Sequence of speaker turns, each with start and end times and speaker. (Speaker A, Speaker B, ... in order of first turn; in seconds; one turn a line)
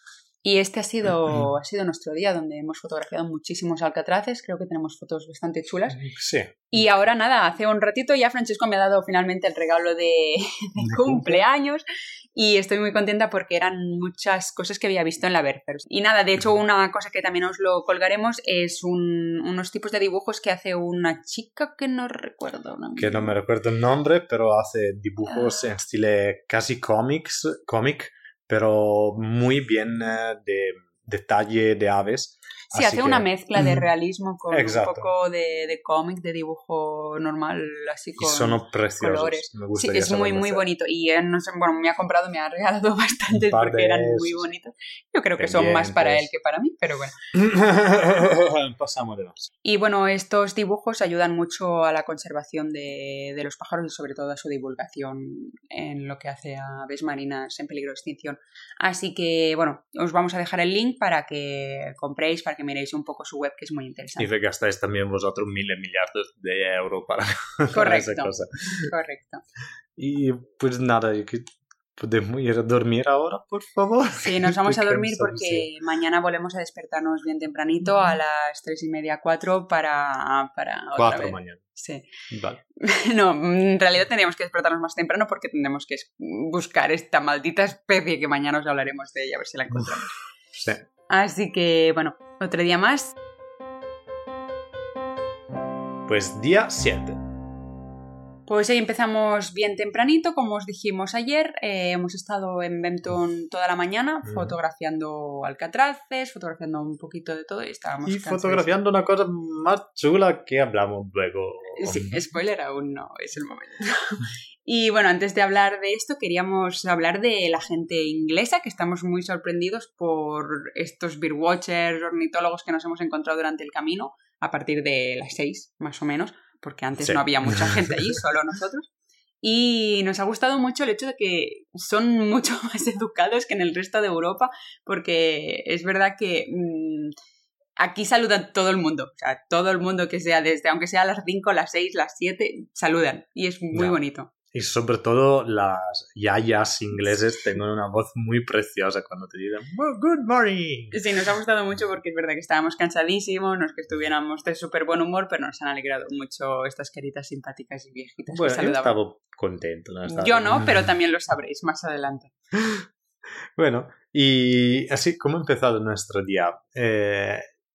Speaker A: 0.4-6.0
Speaker B: 6.0-6.7
Speaker A: 6.7-23.3
Speaker B: 10.8-11.4
Speaker B: 23.0-33.8
Speaker A: 32.7-47.1
Speaker B: 34.5-35.1
Speaker B: 38.2-40.6
Speaker B: 43.3-44.5
Speaker B: 45.4-46.3
Speaker B: 47.3-49.5
Speaker A: 49.6-64.3
Speaker B: 64.2-68.9
Speaker A: 67.7-68.3
Speaker A: 68.9-69.4
Speaker B: 70.0-75.7
Speaker A: 74.2-82.1
Speaker B: 81.0-81.7
Speaker B: 82.3-82.6
Speaker A: 82.8-90.1
Speaker B: 90.6-90.8
Speaker A: 91.1-93.2
Speaker B: 96.1-97.2
Speaker A: 98.5-108.8
Speaker B: 104.3-104.6
Speaker B: 108.0-112.2
Speaker A: 111.8-128.9
Speaker B: 127.0-128.2
Speaker A: 129.4-137.1
Speaker A: 137.8-144.3
Speaker B: 143.7-144.0
Speaker B: 144.5-151.0
Speaker A: 150.9-159.0
Speaker B: 158.3-160.9
Speaker A: 160.1-162.3
Speaker B: 162.6-162.8
Speaker B: 163.6-167.5